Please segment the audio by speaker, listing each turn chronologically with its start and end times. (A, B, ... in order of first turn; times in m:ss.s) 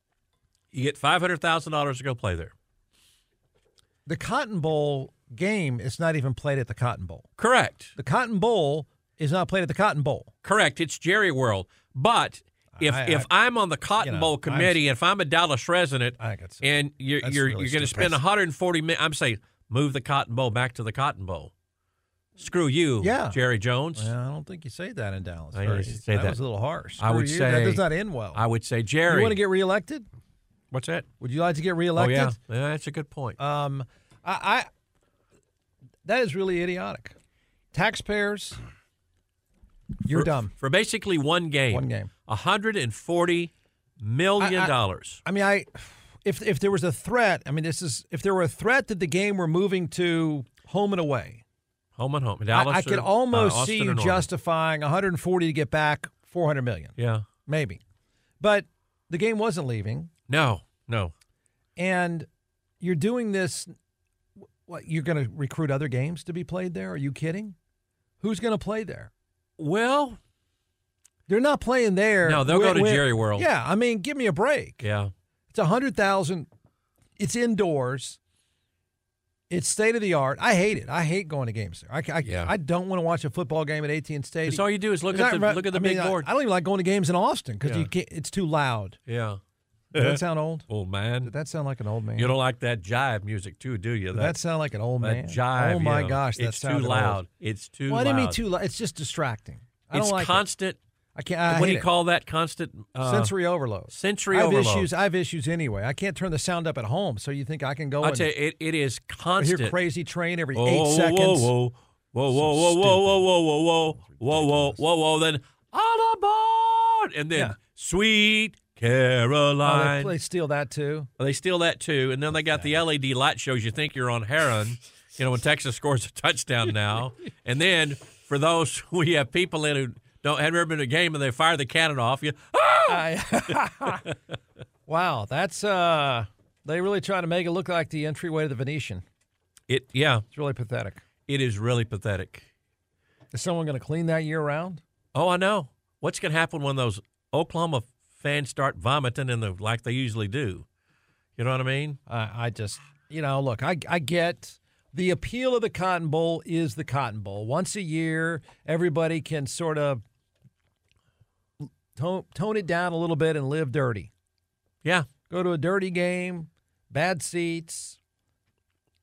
0:00.7-0:02.5 A
0:04.0-0:07.3 B
0:07.4-0:07.9 A
0:08.0-0:10.3 B
0:10.4-0:21.5 A
0:12.8-0:13.3 B
0:14.0-0:14.8 B
0:16.2-0:16.7 B
0:17.2-0:18.2 B
0:22.4-0:24.1 A
0:23.0-0:23.4 B
0:23.9-0:28.4 B
0:25.5-0:26.4 A
0:27.0-0:29.4 A
0:29.1-0:30.1 B
0:30.7-0:31.1 A
0:31.2-0:32.4 B
0:32.0-0:33.4 A
0:33.4-0:34.7 B
0:36.0-0:37.2 B
0:37.7-0:38.6 B
0:40.0-0:40.5 B
0:40.1-0:45.2 A
0:41.7-0:42.1 B
0:44.4-0:51.4 B
0:52.0-0:54.3 A
0:52.5-0:56.9 B
0:57.0-0:57.2 A
0:57.4-0:57.8 B
0:58.4-1:00.1 B
1:00.3-1:01.1 A
1:01.8-1:02.3 B
1:02.8-1:03.7 B
1:04.6-1:07.6 B
1:08.2-1:09.1 B
1:09.6-1:10.2 A
1:11.3-1:14.8 B
1:12.2-1:13.5 A
1:14.8-1:15.1 A
1:15.5-1:16.5 B
1:17.2-1:18.2 B
1:19.5-1:29.0 B
1:22.2-1:22.5 A
1:24.4-1:26.3 A
1:27.6-1:27.9 A
1:29.1-1:29.4 A
1:29.9-1:31.3 A
1:29.9-1:30.7 B
1:31.2-1:32.3 B
1:32.1-1:34.4 A
1:34.1-1:37.2 B
1:35.0-1:38.4 A
1:37.9-1:40.4 B
1:39.9-1:40.8 A
1:41.1-1:41.9 B
1:41.5-1:43.3 A
1:43.0-1:48.3 B
1:43.9-1:44.9 A
1:48.0-1:49.8 A
1:49.4-1:51.5 B
1:50.5-2:00.1 A
1:52.3-1:53.2 B
1:54.0-1:54.8 B
1:59.6-2:01.1 B
2:01.2-2:14.1 A
2:12.9-2:14.1 B
2:14.9-2:19.0 B
2:19.7-2:20.2 A
2:20.3-2:21.0 B
2:21.3-2:22.5 A
2:23.3-2:24.8 B
2:25.1-2:30.6 A
2:31.4-2:32.0 A
2:32.1-2:40.0 B
2:41.6-2:44.1 B
2:44.8-2:45.1 A
2:45.3-2:48.0 B